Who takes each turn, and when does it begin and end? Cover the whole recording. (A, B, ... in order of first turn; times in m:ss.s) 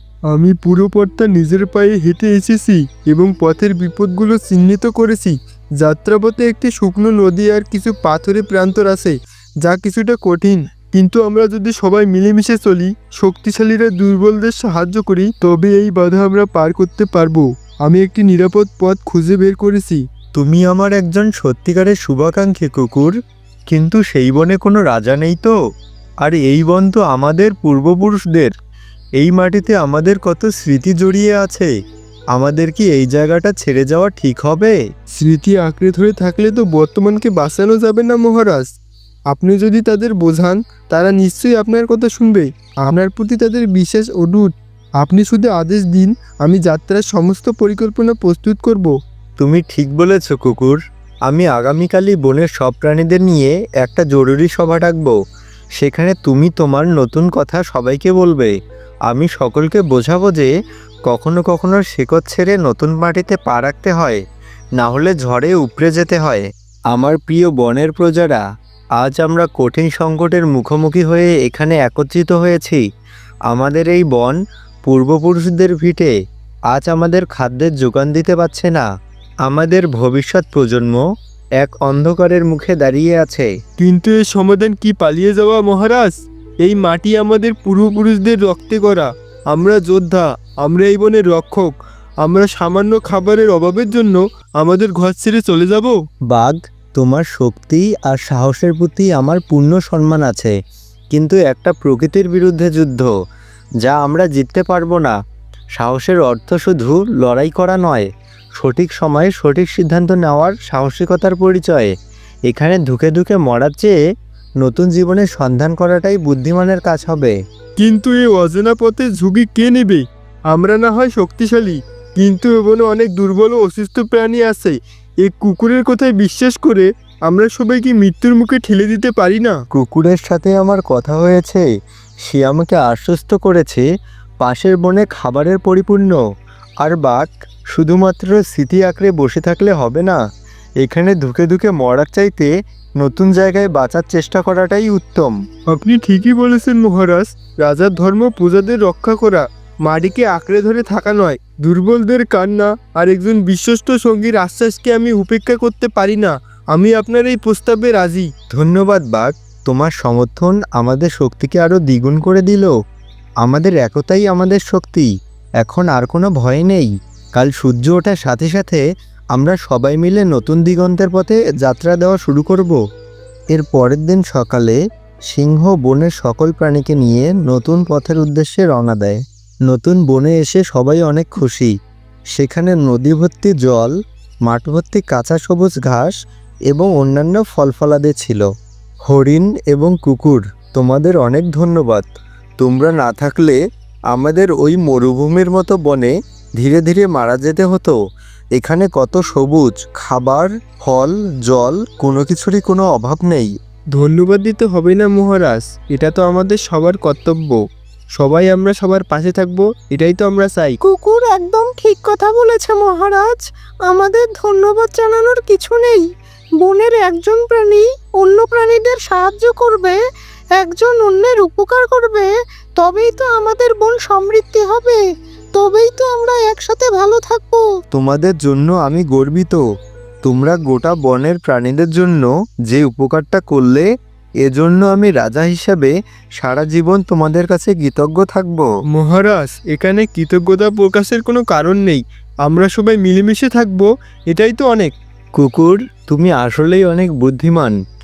0:00.3-0:20.0 A
0:20.3-0:23.1 B
0:23.7-0:25.5 B
0:26.2-0:28.5 B
0:29.2-0:31.7 B
0:32.3-0:34.8 B
0:35.2-0:38.7 A
0:39.3-0:48.9 A
0:49.4-0:55.2 B
0:55.8-0:58.5 B
0:59.1-1:00.5 B
1:01.1-1:04.2 B
1:04.8-1:08.4 B
1:09.0-1:12.8 B
1:13.5-1:16.1 B
1:16.7-1:18.9 B
1:19.5-1:21.0 B
1:21.6-1:23.5 B
1:23.8-1:36.0 A
1:36.3-1:40.5 B
1:41.1-1:43.1 B
1:43.8-1:45.1 B
1:45.8-1:48.1 B
1:48.6-1:51.9 B
1:52.5-1:54.0 B
1:54.6-1:57.4 B
1:57.8-2:09.6 A
2:09.7-2:11.6 B
2:12.3-2:13.8 B
2:14.4-2:16.2 B
2:16.8-2:20.2 B
2:20.8-2:25.4 B
2:25.7-2:38.3 A
2:38.5-2:42.7 B
2:43.4-2:45.1 B
2:45.6-2:48.8 B
2:49.3-2:52.8 B
2:53.5-2:54.8 B
2:55.3-3:01.7 B
3:02.4-3:03.9 B
3:04.5-3:06.1 B
3:06.7-3:08.4 B
3:09.1-3:12.0 B
3:12.6-3:13.6 B
3:14.1-3:17.9 B
3:18.6-3:23.5 B
3:23.9-3:27.6 A
3:28.2-3:30.8 A
3:30.8-3:33.4 C
3:33.9-3:36.0 C
3:36.6-3:40.0 C
3:40.6-3:42.3 C
3:42.8-3:45.0 C
3:45.6-3:47.6 C
3:47.9-3:49.6 B
3:50.2-3:53.9 B
3:54.4-3:58.7 B
3:58.9-4:04.9 A
4:05.4-4:07.8 B